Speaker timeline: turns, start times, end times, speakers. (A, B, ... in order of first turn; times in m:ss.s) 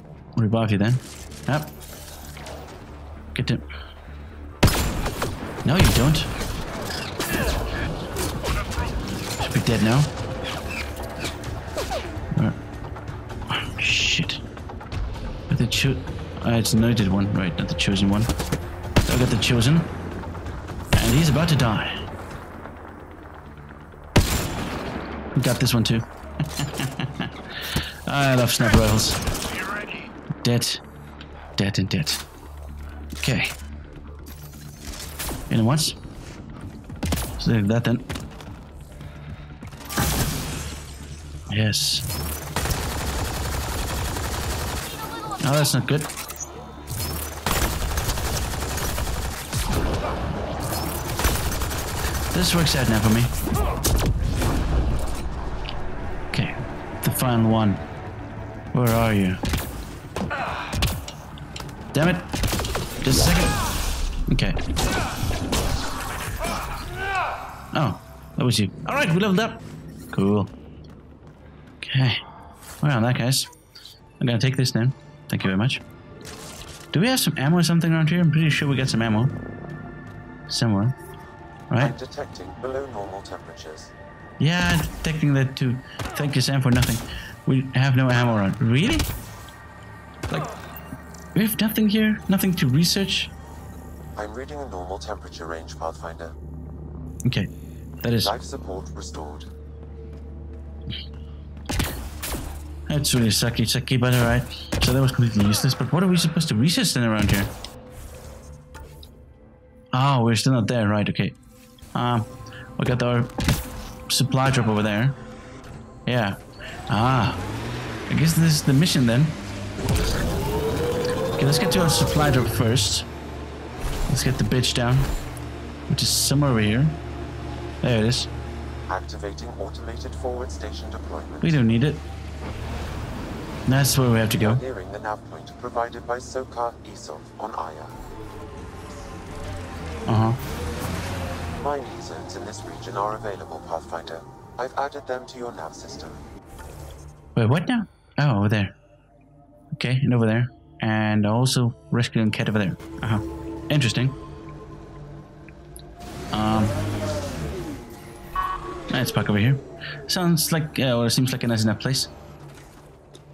0:00.4-0:01.7 A
0:03.3-0:03.6 A
0:05.6-0:06.3 A
0:09.4-0:10.1 A
0:13.5-0:14.4 A
0:15.5-0:18.3 A
0:19.1-0:19.9 A
0:20.9-0:22.0 A
0:25.3-0:27.3 A
0:28.1-0:29.2 A
0:30.4-0:30.8 A
0:31.6-0:32.2 A
0:33.2-0:33.6 A
0:35.5-0:36.0 A
0:37.4-0:38.1 A
0:41.5-0:42.1 A
0:45.4-0:46.1 A
0:52.3-0:53.3 A
0:56.3-0:57.8 A
0:58.7-0:59.4 A
1:01.9-1:02.3 A
1:03.0-1:03.6 A
1:04.3-1:04.6 A
1:07.7-1:10.5 A
1:11.8-1:12.2 A
1:12.8-1:13.5 A
1:14.2-1:15.8 A
1:16.9-1:19.4 A
1:20.5-1:21.0 A
1:21.7-1:22.0 A
1:21.8-1:23.9 B
1:24.4-1:29.1 A
1:31.4-1:33.3 A
1:34.2-1:36.4 B
1:37.2-1:37.5 A
1:38.0-1:38.3 A
1:38.2-1:39.5 B
1:42.9-1:47.5 A
1:49.9-1:51.4 A
1:52.0-1:53.6 A
1:54.1-1:55.2 A
1:56.1-1:57.4 A
1:58.1-1:59.4 A
2:01.4-2:03.1 A
2:04.1-2:05.1 A
2:05.9-2:07.0 A
2:07.8-2:08.3 A
2:08.9-2:11.6 B
2:11.4-2:12.0 A
2:13.7-2:14.6 A
2:14.3-2:17.9 B
2:20.1-2:20.4 A
2:21.6-2:26.2 B
2:27.4-2:28.8 A
2:29.7-2:34.2 A
2:36.3-2:36.8 A
2:38.9-2:42.1 A